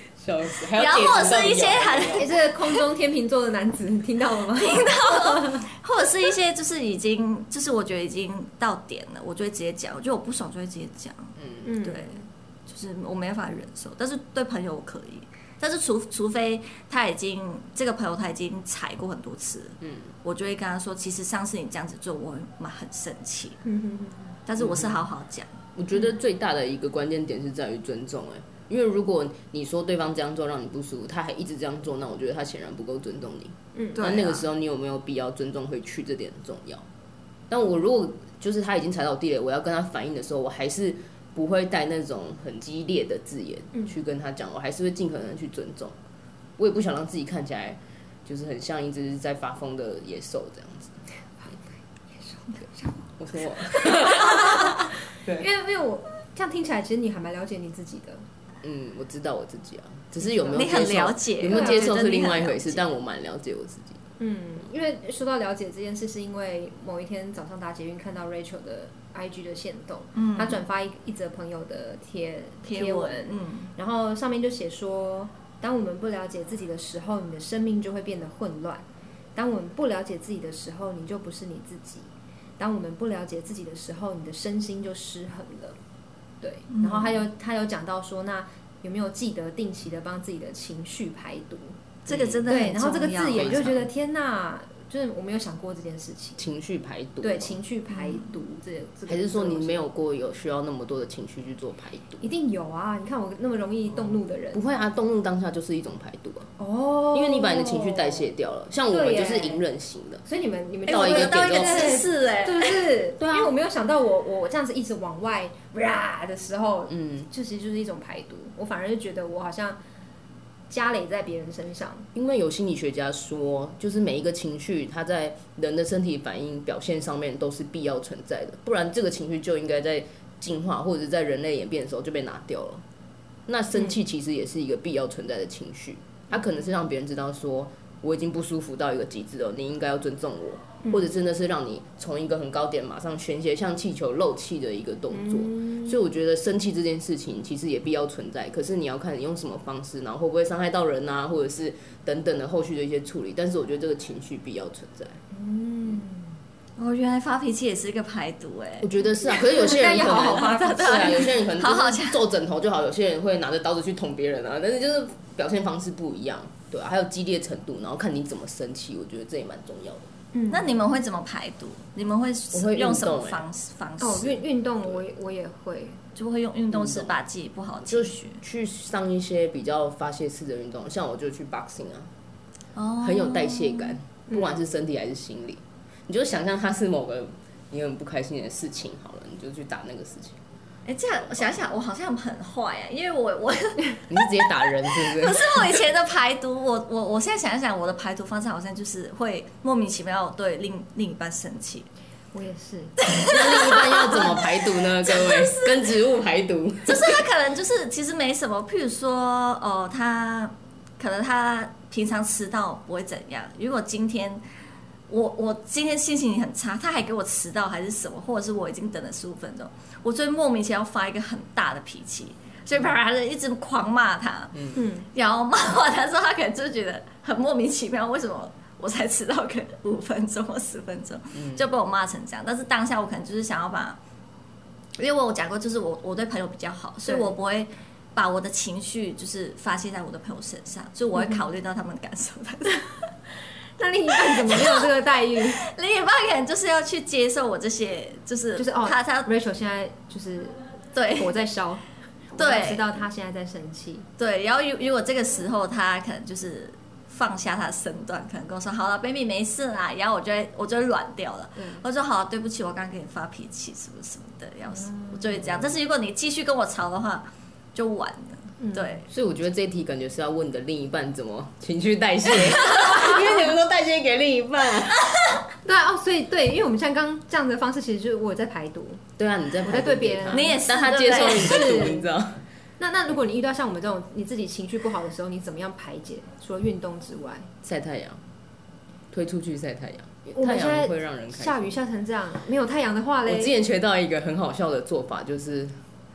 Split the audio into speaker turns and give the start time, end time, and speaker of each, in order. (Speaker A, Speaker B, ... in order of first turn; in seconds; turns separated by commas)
Speaker A: 0.2-2.3, Speaker B: 0.7-2.8, Speaker C: 2.1-5.7, Speaker B: 4.6-23.6, Speaker A: 11.4-11.7, Speaker C: 11.6-12.2, Speaker A: 19.8-20.1, Speaker C: 23.6-24.4, Speaker B: 24.5-25.5, Speaker A: 24.6-25.1, Speaker A: 25.8-36.9, Speaker C: 33.8-34.1, Speaker B: 34.0-34.5, Speaker A: 37.5-46.0, Speaker A: 46.6-51.0, Speaker C: 52.1-53.0, Speaker A: 53.2-55.5, Speaker C: 53.6-58.2, Speaker A: 58.6-64.0, Speaker C: 60.2-60.7, Speaker B: 60.5-62.8, Speaker C: 61.5-61.9, Speaker C: 64.2-78.8, Speaker B: 70.2-70.6, Speaker B: 72.7-73.7, Speaker C: 79.4-85.8, Speaker C: 86.4-91.8, Speaker B: 86.7-87.2, Speaker B: 92.1-93.7, Speaker A: 92.1-92.5, Speaker C: 92.5-96.4, Speaker A: 93.3-93.9, Speaker A: 96.4-97.6, Speaker C: 97.2-99.9, Speaker B: 97.9-98.3, Speaker A: 99.1-102.2, Speaker C: 102.2-104.6, Speaker A: 104.5-106.5, Speaker C: 106.6-108.3, Speaker A: 107.1-110.2, Speaker C: 108.9-109.7, Speaker C: 110.2-119.8, Speaker A: 110.9-112.0, Speaker B: 110.9-112.9, Speaker A: 113.2-113.5, Speaker A: 116.9-117.3, Speaker C: 120.7-122.1, Speaker A: 122.2-132.8, Speaker A: 133.5-155.2, Speaker C: 145.1-146.0, Speaker C: 155.3-156.3, Speaker B: 156.8-162.2, Speaker A: 158.8-170.1, Speaker C: 159.5-161.3, Speaker C: 170.3-170.8, Speaker B: 170.5-174.4, Speaker A: 172.5-173.4, Speaker C: 174.0-176.0, Speaker B: 176.2-178.4, Speaker A: 176.7-177.2, Speaker A: 177.9-182.1, Speaker B: 182.8-184.0, Speaker A: 183.0-190.4, Speaker C: 184.3-184.6, Speaker B: 190.9-201.9, Speaker A: 191.2-191.6, Speaker A: 194.1-195.8, Speaker C: 202.3-203.0, Speaker B: 203.0-206.0, Speaker A: 203.2-207.3, Speaker B: 206.9-214.4, Speaker B: 215.1-234.0, Speaker C: 224.7-225.1, Speaker A: 231.3-231.7, Speaker B: 235.0-243.0, Speaker C: 237.1-237.3, Speaker C: 241.2-241.4, Speaker C: 243.8-245.6, Speaker B: 244.3-244.9, Speaker B: 245.6-249.3, Speaker C: 248.6-250.6, Speaker B: 250.9-251.4, Speaker C: 251.2-254.1, Speaker B: 252.4-252.9, Speaker B: 254.2-269.1, Speaker C: 261.6-261.8, Speaker C: 264.8-265.3, Speaker C: 268.6-269.0, Speaker A: 269.1-275.1, Speaker C: 275.6-279.0, Speaker A: 279.2-282.4, Speaker C: 279.6-282.1, Speaker B: 280.3-281.9, Speaker C: 282.8-287.5, Speaker A: 287.6-288.2, Speaker A: 289.1-291.8, Speaker C: 290.4-293.5, Speaker A: 293.3-295.8